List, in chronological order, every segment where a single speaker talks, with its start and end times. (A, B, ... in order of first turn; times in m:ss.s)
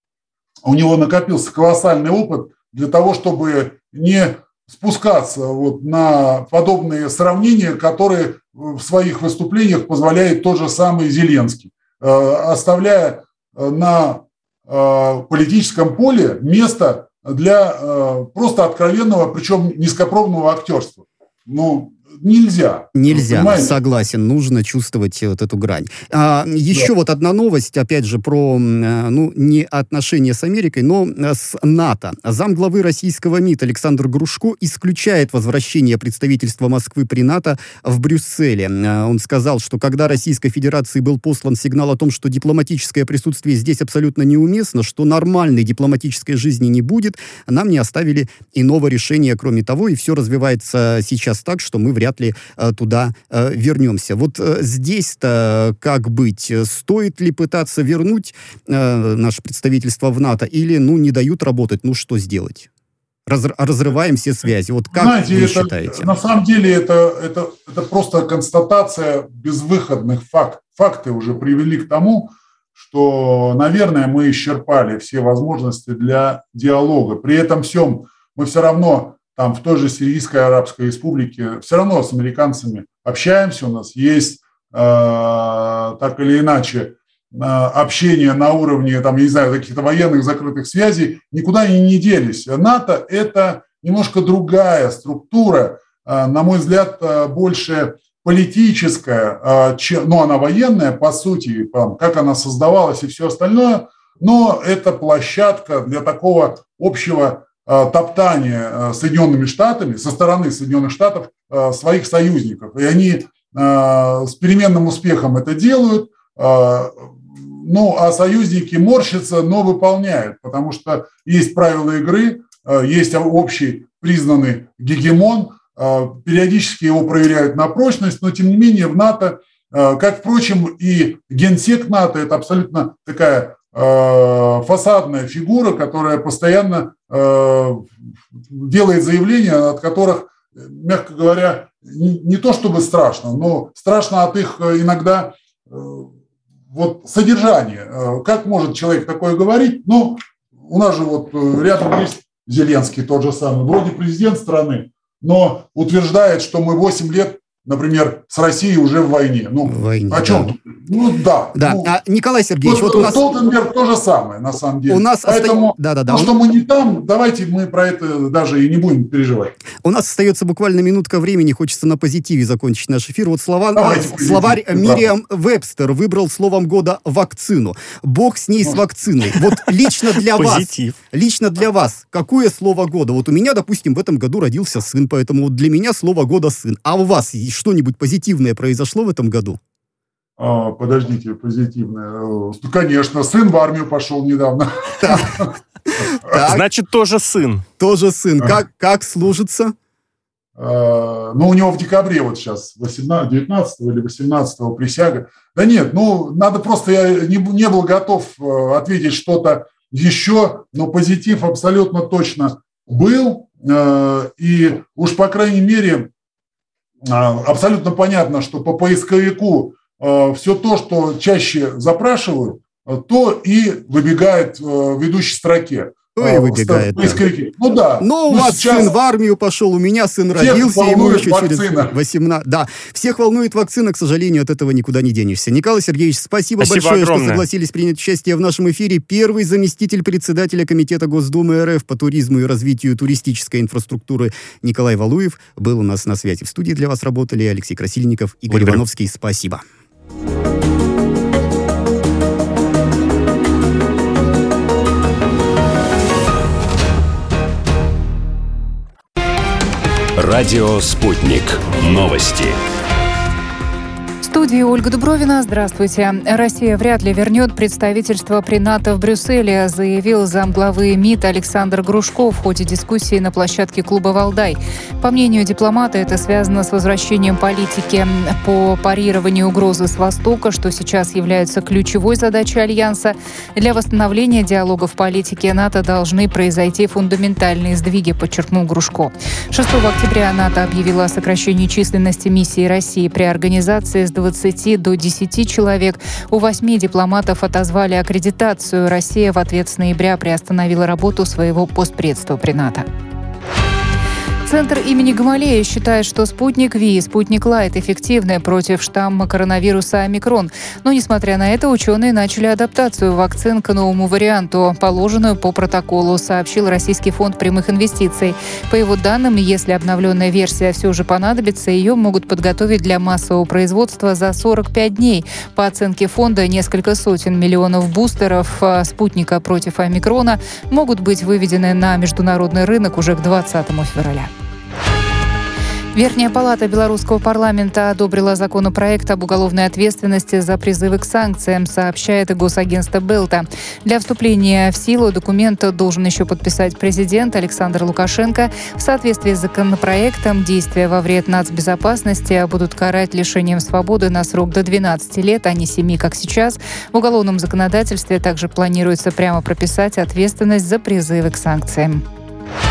0:00.6-0:23.7 A
0:22.9-1:02.7 B
1:03.2-1:06.1 B
1:04.9-2:17.9 A
2:18.5-2:26.1 A
2:26.7-2:41.9 A
2:39.6-2:40.5 B
2:41.5-2:43.2 B
2:42.6-2:49.5 A
2:44.9-2:46.3 B
2:49.8-3:09.6 B
2:53.8-2:55.0 A
3:00.1-3:01.0 C
3:10.4-3:15.5 A
3:15.0-3:15.5 B
3:16.2-3:16.6 B
3:16.4-3:17.6 C
3:17.8-3:19.7 B
3:20.6-3:36.1 A
3:37.0-3:48.9 A
3:46.2-3:47.2 B
3:48.0-4:09.6 B
3:50.3-3:51.9 A
3:56.6-3:57.4 C
4:08.5-4:08.8 C
4:20.2-4:22.6 D
4:24.2-5:02.8 E
5:04.4-5:34.3 E
5:35.9-6:02.0 E